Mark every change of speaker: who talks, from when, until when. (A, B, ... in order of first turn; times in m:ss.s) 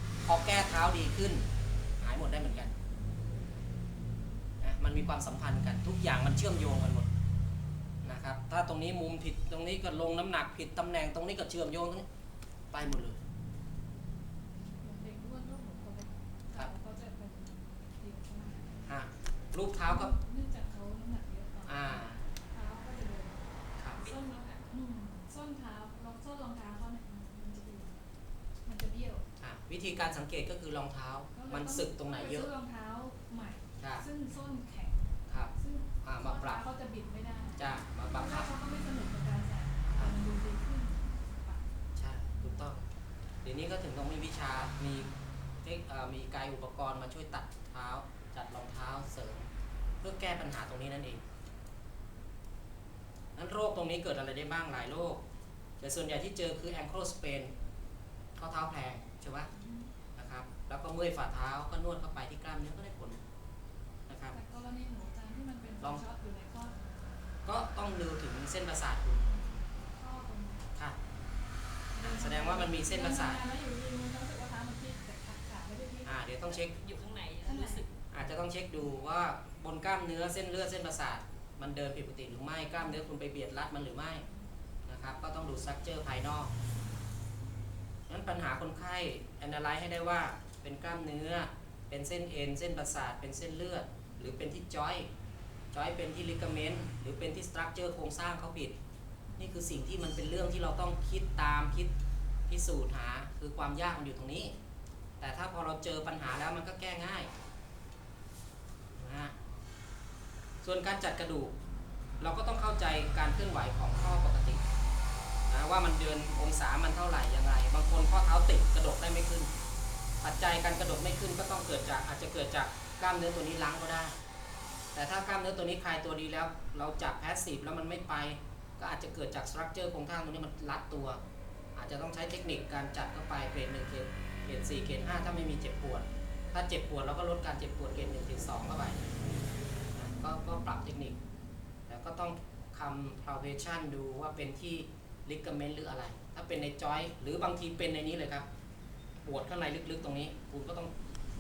0:00.2-0:01.5 A
0:02.0-0:02.7 A
0:04.6-0:07.1 A
0:08.0-0:12.1 A
0:12.7-0:13.2 A
0:14.8-0:18.8 B
0:18.9-0:20.2 A
0:19.8-0:28.0 B
0:21.7-0:22.2 A
0:23.8-0:24.0 A
0:24.0-0:24.7 C
0:28.6-0:29.2 B
0:29.4-0:32.5 A
0:31.3-0:41.7 B
0:33.8-0:34.1 A
0:35.3-0:36.6 A
0:37.6-0:38.5 A
0:39.9-0:40.2 A
0:42.0-0:42.9 A
0:43.4-0:49.5 A
0:50.0-0:51.2 A
0:53.4-0:55.2 A
0:55.8-0:57.5 A
0:58.4-0:59.5 A
0:59.5-0:59.9 B
1:00.2-1:03.2 A
1:04.1-1:04.4 A
1:04.3-1:06.8 B
1:07.4-1:09.3 A
1:09.3-1:10.7 B
1:11.9-1:16.1 B
1:12.0-1:13.4 A
1:16.0-1:16.7 A
1:16.6-1:17.9 C
1:17.4-1:17.8 B
1:18.1-1:24.3 A
1:24.9-1:26.5 A
1:28.1-1:35.1 A
1:35.7-1:38.8 A
1:39.4-1:41.9 A
1:42.5-1:44.5 A
1:45.2-1:47.3 A
1:49.0-1:49.4 A
1:50.6-1:51.5 A
1:52.2-1:54.6 A
1:55.5-1:59.5 A
2:00.2-2:04.2 A
2:05.0-2:11.2 A
2:11.8-2:19.0 A
2:20.0-2:21.2 A
2:21.9-2:28.5 A
2:29.2-2:30.9 A